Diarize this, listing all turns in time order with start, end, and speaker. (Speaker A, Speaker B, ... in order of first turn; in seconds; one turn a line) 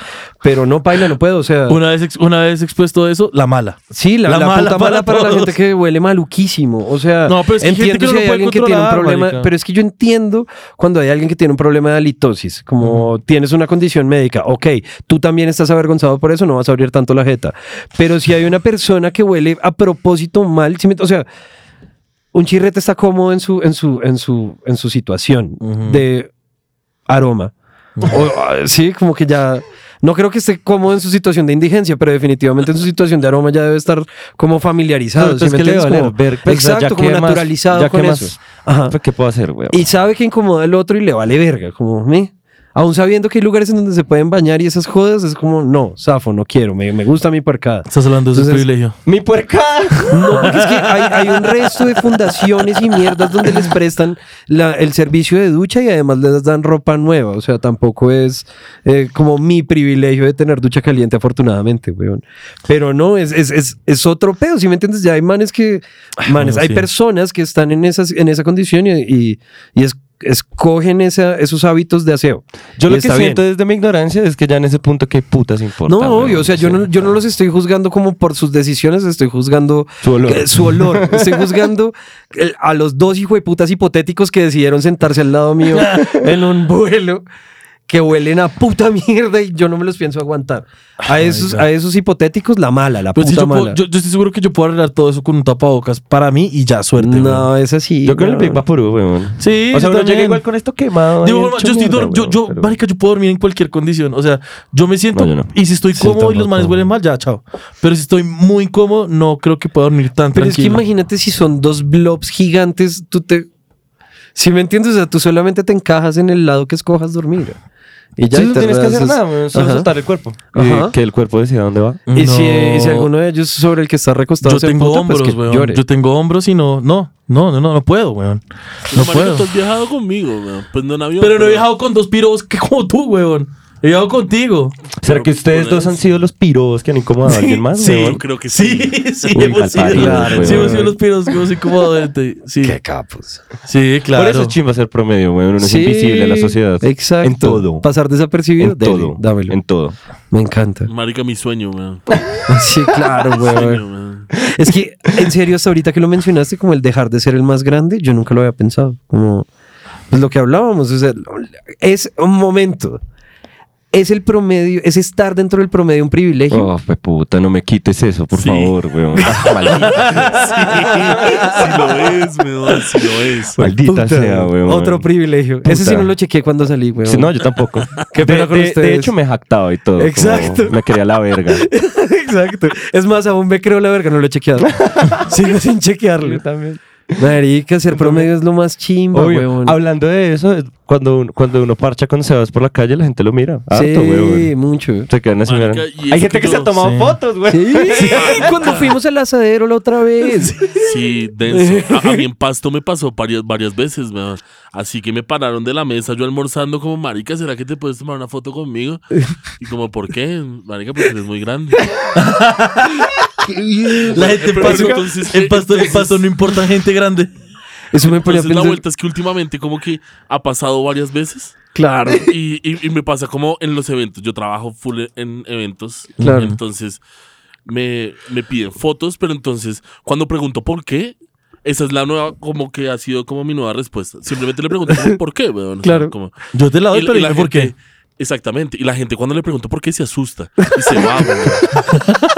Speaker A: 0.4-1.8
Speaker B: 1.7-5.5
Speaker A: 3.9-21.3
Speaker B: 7.3-9.5
Speaker B: 12.8-13.1
Speaker A: 22.3-26.3
Speaker B: 25.6-26.0
Speaker A: 27.1-27.5
Speaker B: 28.0-28.2
Speaker A: 28.1-39.0
Speaker C: 35.1-39.8
Speaker A: 39.7-48.6
Speaker B: 47.9-49.0
Speaker C: 49.0-50.5
Speaker A: 50.1-73.4
Speaker B: 66.4-66.9
Speaker C: 72.8-77.1
Speaker A: 75.9-87.2
Speaker C: 80.0-81.7
Speaker B: 85.7-86.1
Speaker A: 87.9-93.8
Speaker B: 91.2-91.7
Speaker B: 93.2-97.5
Speaker A: 97.0-98.6
Speaker C: 98.0-102.8
Speaker B: 99.4-100.4
Speaker B: 101.2-110.8
Speaker C: 105.1-105.5
Speaker A: 105.9-106.8
Speaker A: 110.3-113.5
Speaker A: 114.3-117.6
Speaker A: 118.2-119.9
Speaker C: 118.3-122.0
Speaker A: 120.5-120.9
Speaker B: 122.1-123.1
Speaker A: 122.1-125.8
Speaker B: 124.4-129.4
Speaker D: 128.9-131.7
Speaker B: 131.2-134.8
Speaker C: 135.0-138.2
Speaker D: 135.0-136.0
Speaker B: 137.7-142.8
Speaker D: 137.9-139.5
Speaker C: 139.3-140.9
Speaker A: 139.4-140.9
Speaker A: 142.6-143.4
Speaker B: 143.7-144.6
Speaker C: 144.1-147.9
Speaker A: 145.6-149.6
Speaker C: 148.6-150.0
Speaker A: 150.3-150.9
Speaker D: 150.9-152.1
Speaker A: 152.5-153.8
Speaker D: 153.1-154.3
Speaker A: 154.3-159.5
Speaker A: 160.1-163.0
Speaker A: 163.9-166.7
Speaker C: 166.5-170.5
Speaker D: 168.3-173.6
Speaker A: 169.2-169.6
Speaker A: 170.9-172.1
Speaker A: 172.7-173.0
Speaker C: 173.6-175.1
Speaker A: 173.6-177.3
Speaker C: 175.6-176.1
Speaker C: 177.0-181.7
Speaker A: 178.1-179.1
Speaker A: 180.0-180.8
Speaker A: 181.5-186.4
Speaker C: 184.6-185.3
Speaker C: 186.2-187.2
Speaker A: 187.2-189.8
Speaker C: 189.1-194.5
Speaker A: 193.7-195.1
Speaker C: 195.1-198.5
Speaker D: 195.5-196.7
Speaker B: 196.8-197.2
Speaker A: 197.5-200.9
Speaker D: 197.9-199.0
Speaker D: 200.6-212.0
Speaker A: 201.5-202.2
Speaker B: 212.1-213.1
Speaker A: 213.4-215.0
Speaker D: 214.1-216.3
Speaker B: 214.1-217.3
Speaker A: 217.9-218.8
Speaker D: 218.0-227.0
Speaker A: 221.8-222.3
Speaker B: 226.2-226.6
Speaker A: 226.2-226.5
Speaker D: 227.7-236.4
Speaker A: 235.8-236.1
Speaker B: 236.5-237.7
Speaker D: 236.9-241.9
Speaker A: 241.0-241.2